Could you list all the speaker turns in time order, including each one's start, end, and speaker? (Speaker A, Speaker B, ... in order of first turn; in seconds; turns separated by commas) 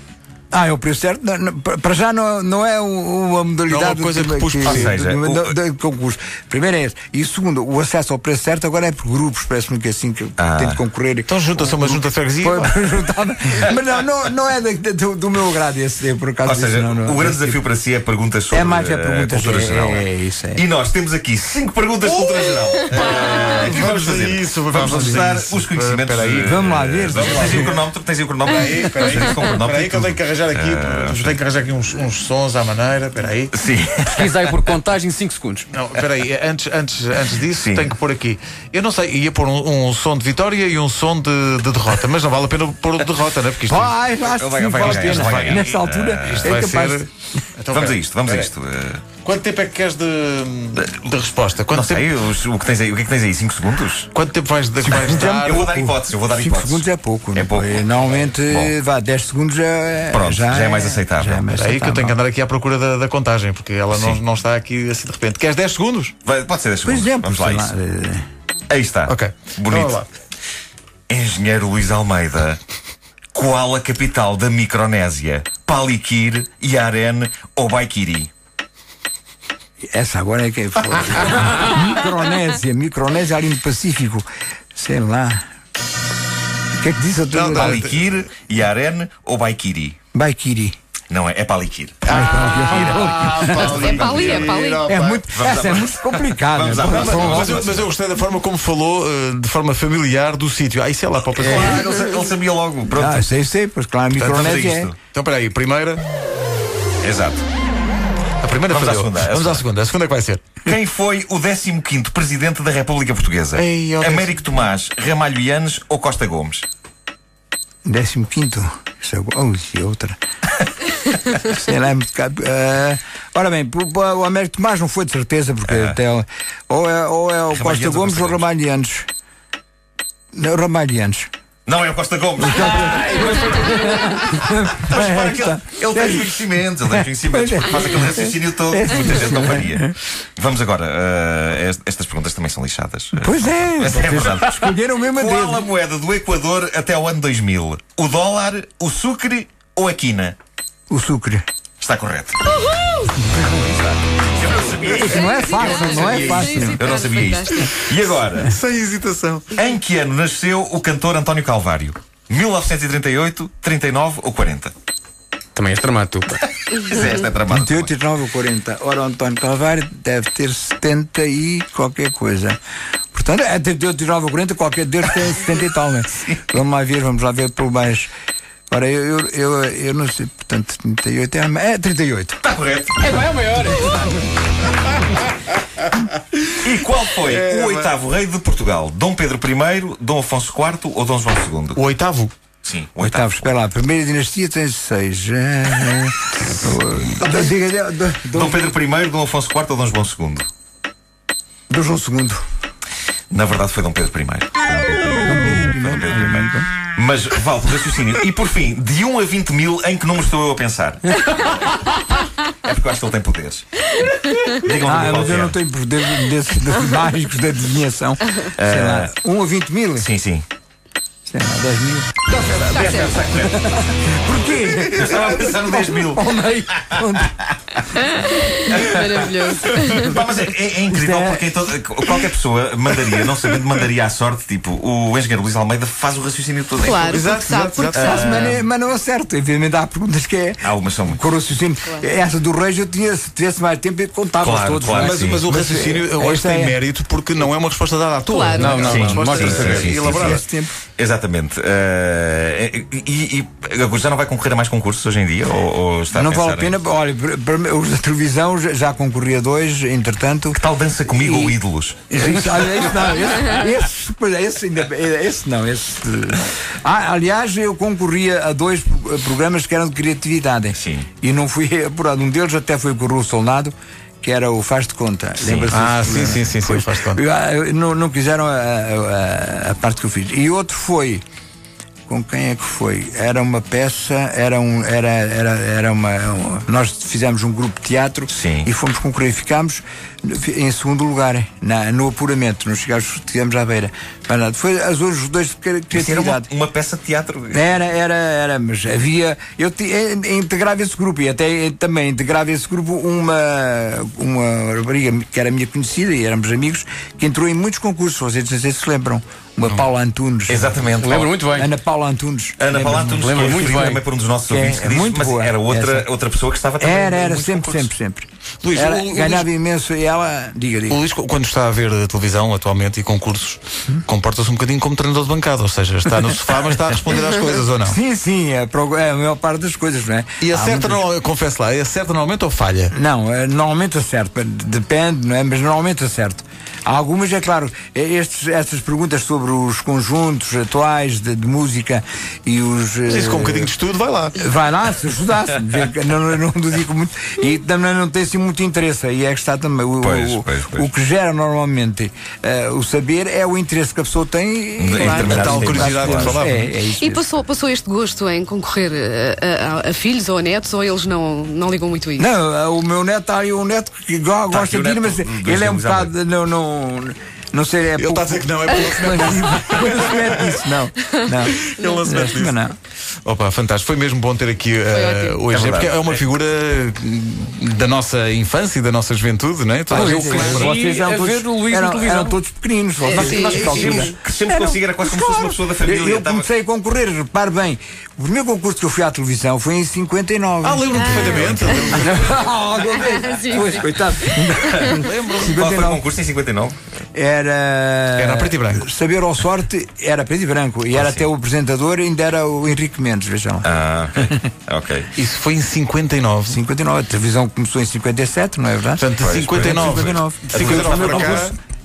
Speaker A: 0.5-17.6, Speaker B: 3.7-4.9, Speaker C: 4.6-5.5, Speaker C: 10.4-10.8, Speaker B: 11.3-12.7, Speaker C: 16.4-31.4, Speaker A: 18.5-20.6, Speaker B: 22.9-27.7, Speaker A: 24.8-25.2, Speaker A: 26.4-27.8, Speaker B: 28.4-33.5, Speaker C: 33.5-34.6, Speaker D: 34.1-35.7, Speaker B: 35.7-43.9, Speaker C: 37.5-37.9, Speaker A: 43.6-47.1, Speaker C: 44.3-46.6, Speaker B: 44.7-48.5, Speaker C: 47.7-49.0, Speaker B: 49.2-52.1, Speaker C: 51.7-54.1, Speaker B: 54.1-55.7, Speaker A: 54.8-62.1, Speaker C: 55.4-56.8, Speaker C: 57.4-58.8, Speaker C: 60.1-61.5, Speaker B: 61.5-66.1, Speaker C: 63.9-64.2, Speaker C: 66.2-67.7, Speaker A: 66.8-68.2, Speaker C: 68.7-70.0, Speaker B: 69.0-70.1, Speaker C: 71.1-72.6, Speaker C: 73.3-78.3, Speaker A: 79.8-85.4, Speaker A: 86.8-87.8, Speaker B: 87.3-88.2, Speaker C: 87.5-90.0, Speaker A: 90.1-90.8, Speaker C: 91.1-94.6, Speaker A: 92.0-93.8, Speaker B: 92.0-95.2, Speaker E: 93.8-94.9, Speaker A: 94.8-97.7, Speaker C: 95.3-97.9, Speaker B: 96.8-101.8, Speaker A: 101.3-101.7, Speaker C: 101.3-103.3, Speaker A: 102.9-104.9, Speaker C: 104.1-105.0, Speaker B: 105.1-106.0, Speaker C: 107.0-107.4, Speaker B: 108.4-110.4, Speaker C: 108.7-109.6, Speaker C: 110.6-116.7, Speaker B: 113.5-114.5, Speaker A: 117.8-120.2, Speaker A: 121.4-129.1, Speaker C: 125.7-126.0, Speaker C: 127.5-128.4, Speaker A: 130.3-131.3, Speaker C: 131.7-150.4, Speaker A: 132.4-139.9, Speaker A: 143.2-145.7, Speaker A: 150.9-151.4, Speaker C: 151.8-152.4, Speaker E: 152.5-153.2, Speaker C: 153.3-158.6, Speaker E: 154.8-158.0, Speaker A: 154.8-156.9, Speaker B: 158.4-159.5, Speaker C: 159.5-164.7, Speaker D: 165.6-166.4, Speaker C: 166.7-167.9, Speaker A: 167.5-172.6, Speaker A: 173.1-178.1, Speaker A: 178.7-182.4, Speaker C: 182.4-183.1, Speaker D: 183.0-184.2, Speaker C: 186.6-191.8, Speaker B: 187.3-187.8, Speaker B: 191.8-192.3, Speaker C: 192.6-193.5, Speaker A: 193.0-198.7, Speaker C: 198.3-200.5, Speaker A: 201.7-202.4, Speaker C: 203.3-211.9, Speaker A: 205.2-206.7, Speaker C: 212.5-213.6, Speaker C: 214.5-215.6, Speaker A: 214.8-220.1, Speaker C: 218.6-219.1, Speaker C: 220.0-220.4, Speaker A: 221.3-227.3, Speaker E: 222.5-223.2, Speaker C: 222.6-223.6, Speaker C: 224.7-227.5, Speaker E: 228.0-230.3, Speaker A: 228.7-229.2, Speaker C: 230.0-237.2, Speaker A: 230.9-232.1, Speaker E: 236.8-238.6, Speaker B: 237.0-238.4, Speaker C: 237.9-238.5, Speaker A: 237.9-246.8, Speaker C: 240.6-241.2, Speaker C: 244.4-245.4, Speaker B: 244.9-250.4, Speaker E: 248.3-248.9, Speaker D: 248.5-249.9, Speaker C: 248.8-250.4, Speaker A: 249.6-250.8, Speaker C: 251.0-256.8, Speaker A: 256.1-261.6, Speaker C: 260.5-262.2, Speaker A: 262.1-281.2, Speaker C: 270.7-271.1, Speaker C: 275.4-275.8, Speaker B: 275.7-277.2, Speaker A: 282.1-296.5, Speaker C: 288.3-288.7, Speaker C: 295.9-297.6, Speaker A: 297.5-310.8, Speaker C: 310.5-311.4, Speaker D: 310.9-311.7, Speaker A: 311.5-313.7, Speaker C: 312.6-317.9, Speaker D: 313.1-314.0, Speaker A: 314.5-316.1, Speaker A: 316.8-321.0, Speaker B: 318.6-319.5, Speaker B: 320.9-328.0, Speaker A: 327.8-331.0, Speaker B: 330.4-332.9, Speaker A: 332.9-343.7, Speaker B: 343.1-344.4, Speaker A: 344.4-357.2, Speaker C: 350.0-350.9, Speaker C: 354.8-356.4, Speaker E: 354.9-355.6, Speaker B: 355.2-356.7, Speaker E: 357.0-362.3, Speaker A: 362.2-372.7, Speaker C: 364.5-366.1, Speaker B: 368.0-370.4, Speaker B: 371.4-372.6, Speaker E: 371.8-372.2, Speaker B: 373.2-380.8, Speaker E: 374.9-375.4, Speaker C: 375.5-376.2, Speaker A: 379.9-384.1, Speaker D: 379.9-382.4, Speaker D: 383.1-383.6, Speaker C: 383.1-386.5, Speaker E: 383.1-384.1, Speaker A: 384.7-396.0, Speaker B: 390.6-392.4, Speaker E: 390.9-392.0, Speaker E: 393.0-394.1, Speaker B: 394.8-395.6, Speaker C: 395.4-396.8, Speaker A: 397.1-404.4, Speaker B: 398.1-398.9, Speaker C: 403.6-405.1, Speaker B: 405.1-406.6, Speaker A: 406.5-409.0, Speaker B: 409.0-411.6, Speaker C: 409.2-411.4, Speaker A: 409.6-411.5, Speaker D: 411.0-411.5